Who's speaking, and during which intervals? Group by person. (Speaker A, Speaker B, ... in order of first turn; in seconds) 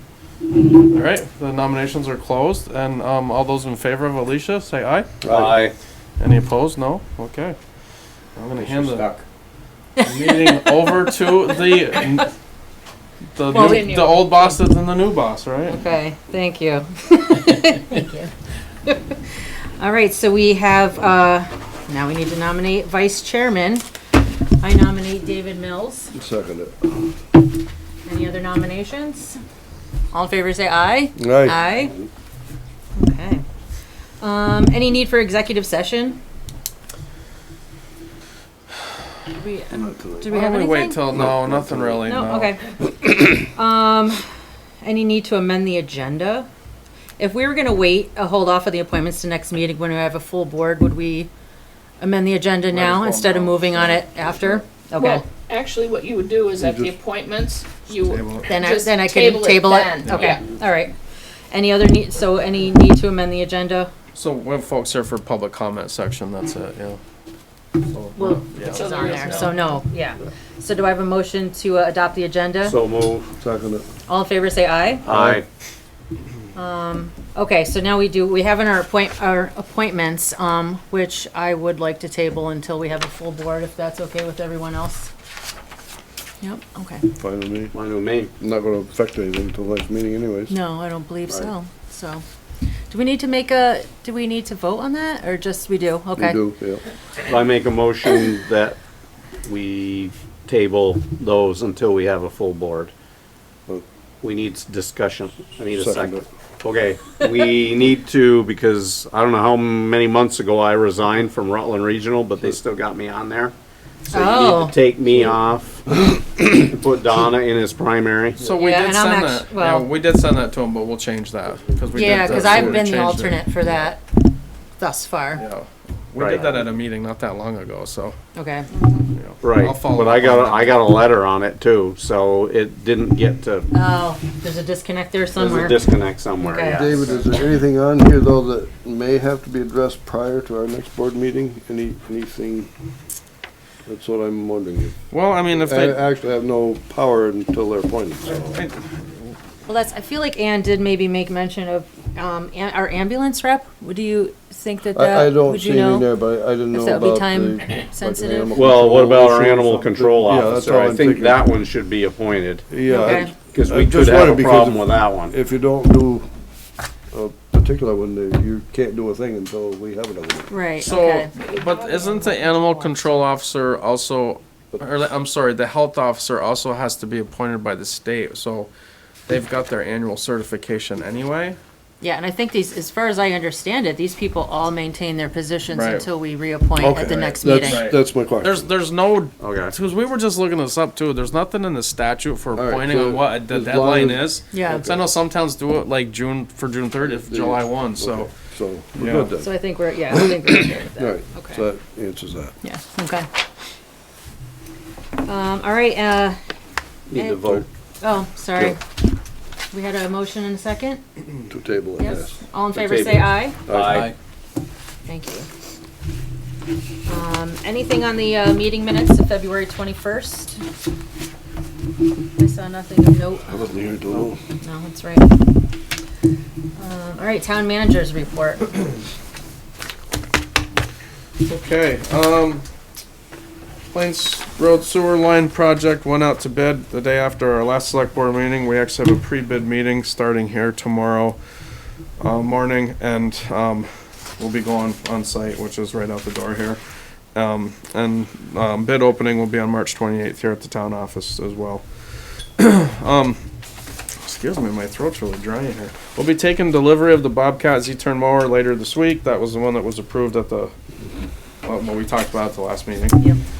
Speaker A: 0.7-5.1, 6.2-7.6, 8.3-9.1, 10.0-12.3, 13.3-15.8, 40.3-42.5, 52.7-54.6, 57.9-58.5, 60.0-60.4, 64.1-67.0, 68.0-69.4, 118.4-123.5, 125.4-128.2, 129.2-130.8, 145.1-146.0, 148.3-148.9, 170.8-178.7, 179.3-181.6, 185.7-186.1, 187.5-198.3, 198.9-199.3, 213.8-214.1, 231.4-232.6, 233.9-241.4, 242.2-246.8, 247.3-251.8, 252.6-253.4, 254.2-260.7, 261.6-263.2
Speaker B: 5.2-5.6, 26.1-27.0, 31.2-32.1, 39.7-40.4, 41.1-42.2, 56.6-56.9, 73.4-73.8, 75.1-75.4, 87.2-87.7, 88.3-90.5, 96.2-96.8, 105.7-106.2, 121.8-122.8, 136.7-142.7, 143.8-144.9, 145.5-148.6, 154.9-161.4, 162.7-166.3, 167.1-170.5, 174.7-175.0, 186.8-188.7, 192.5-195.0, 197.0-199.5, 200.1-202.5, 211.5-212.4, 213.7-214.1, 223.4-224.4
Speaker C: 5.3-5.7, 8.6-9.2, 72.6-73.3, 75.0-75.5, 87.7-88.3, 97.2-98.8, 99.4-102.9, 104.2-113.5, 114.1-118.4, 126.2-126.7, 129.4-133.7, 135.3-137.3, 158.5-165.3, 189.4-189.7, 207.1-207.7, 212.7-214.1
Speaker D: 10.0-10.9, 13.5-14.5, 15.7-18.3, 18.9-19.2, 19.8-23.8, 24.6-26.1, 28.1-29.4, 30.1-31.9, 33.0-33.4, 34.2-36.2, 39.4-41.0, 42.0-44.2, 44.8-46.5, 47.2-51.3, 52.0-55.2, 58.5-60.9, 61.5-63.9, 68.2-72.8, 74.1-75.1, 76.5-85.1, 86.4-87.1, 90.5-92.2, 92.9-96.4, 114.1-114.8, 118.6-119.9, 121.9-124.0, 124.8-125.4, 128.3-129.0, 133.7-135.8, 136.4-136.9, 149.7-156.1, 156.7-158.5, 162.8-163.3, 170.5-171.3, 182.0-187.9, 194.5-194.9, 199.4-201.6, 202.6-203.3, 205.2-206.4, 207.1-207.4, 208.0-208.8, 209.7-211.0, 212.0-213.6, 215.1-215.5, 217.0-220.6, 222.3-223.5, 224.6-225.3, 226.8-228.9
Speaker E: 55.0-60.4, 68.7-69.7, 171.4-172.2